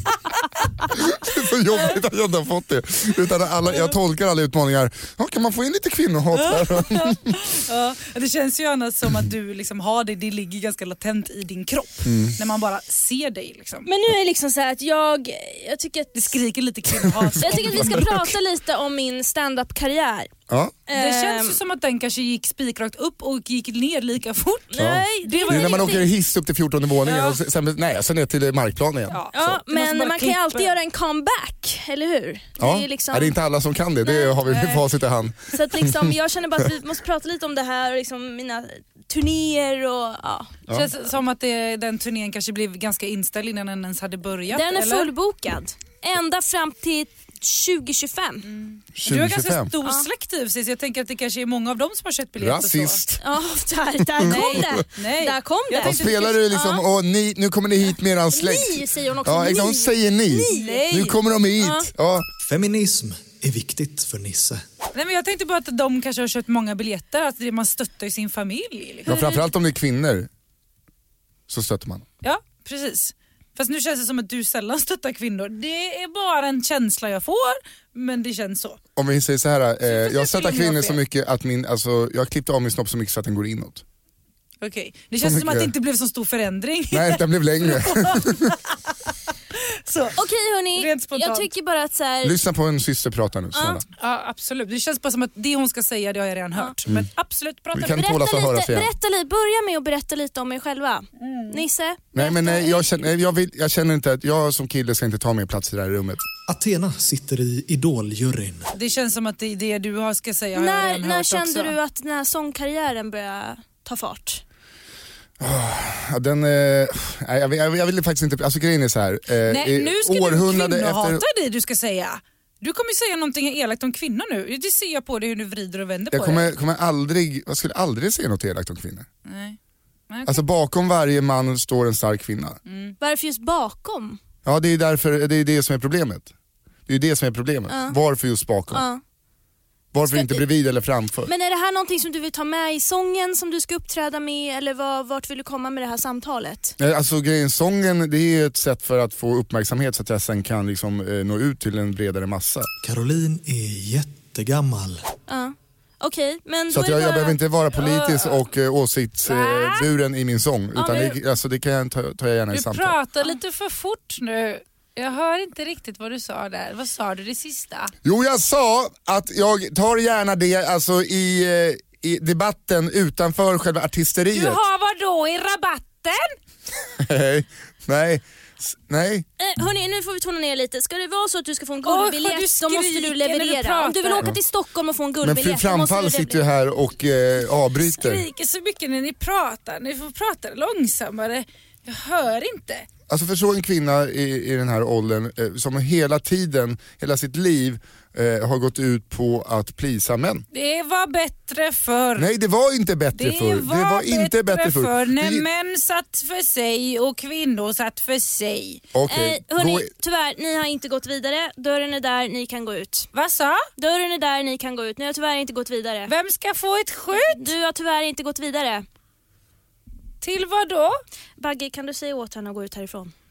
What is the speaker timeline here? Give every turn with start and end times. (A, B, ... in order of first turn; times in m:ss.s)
0:00.9-0:07.4 A
0:06.3-0:13.9 B
0:12.0-0:12.4 A
0:13.8-0:16.4 C
0:16.1-0:18.1 B
0:17.1-0:18.2 A
0:17.4-0:20.3 C
0:20.5-0:20.8 A
0:20.9-0:21.6 C
0:20.9-0:26.1 B
0:24.7-0:26.1 C
0:24.8-0:29.2 A
0:27.0-0:27.4 B
0:29.1-0:30.7 B
0:29.3-0:33.4 C
0:32.6-0:36.1 A
0:34.0-0:34.8 C
0:35.5-0:40.5 C
0:40.7-0:45.1 B
0:44.5-0:48.5 C
0:48.4-0:53.0 B
0:49.0-0:49.7 A
0:52.4-0:53.2 A
0:53.2-0:56.8 C
0:54.0-0:54.8 A
0:54.2-0:56.4 B
0:55.8-1:02.2 A
0:58.3-1:00.8 C
1:00.5-1:01.2 B
1:01.6-1:01.9 C
1:02.4-1:04.6 D
1:04.9-1:09.1 B
1:09.0-1:10.3 A
1:09.1-1:09.4 C
1:11.5-1:12.0 A
1:12.2-1:18.8 B
1:19.0-1:23.8 A
1:19.8-1:21.0 B
1:24.6-1:28.7 B
1:25.2-1:25.7 A
1:26.9-1:28.6 A
1:29.5-1:30.2 B
1:30.1-1:32.4 C
1:30.7-1:31.5 B
1:32.2-1:33.8 A
1:33.5-1:33.8 C
1:34.0-1:38.0 B
1:37.7-1:38.9 A
1:37.8-1:43.0 C
1:41.2-1:41.6 B
1:42.1-1:46.2 A
1:46.5-1:48.7 D
1:48.7-1:51.7 B
1:50.5-1:54.4 C
1:55.4-2:01.2 A
1:59.5-2:06.5 B
2:06.1-2:09.1 A
2:09.2-2:09.6 B
2:10.1-2:10.4 B
2:10.2-2:12.6 A
2:12.6-2:13.0 B
2:13.0-2:14.2 C
2:14.4-2:16.3 A
2:16.9-2:18.8 A
2:17.7-2:18.0 C
2:18.7-2:19.0 C
2:19.9-2:21.3 A
2:20.1-2:20.4 C
2:21.2-2:26.8 C
2:26.8-2:32.7 A
2:32.8-2:35.0 D
2:35.3-2:37.4 C
2:36.7-2:43.0 A
2:39.3-2:39.9 B
2:40.7-2:41.2 C
2:42.5-2:47.9 B
2:48.0-2:54.6 A
2:54.3-2:56.3 B
2:57.0-2:59.3 A
2:59.4-3:06.4 C
3:01.8-3:04.3 B
3:05.2-3:08.2 A
3:08.0-3:12.8 B
3:13.1-3:20.4 A
3:20.5-3:22.3 B
3:22.2-3:25.4 A
3:23.1-3:28.8 B
3:28.9-3:29.9 A
3:29.1-3:33.1 C
3:33.1-3:33.7 B
3:33.8-3:36.1 C
3:36.1-3:37.5 B
3:37.1-3:38.8 C
3:40.2-3:41.0 B
3:41.4-3:43.1 C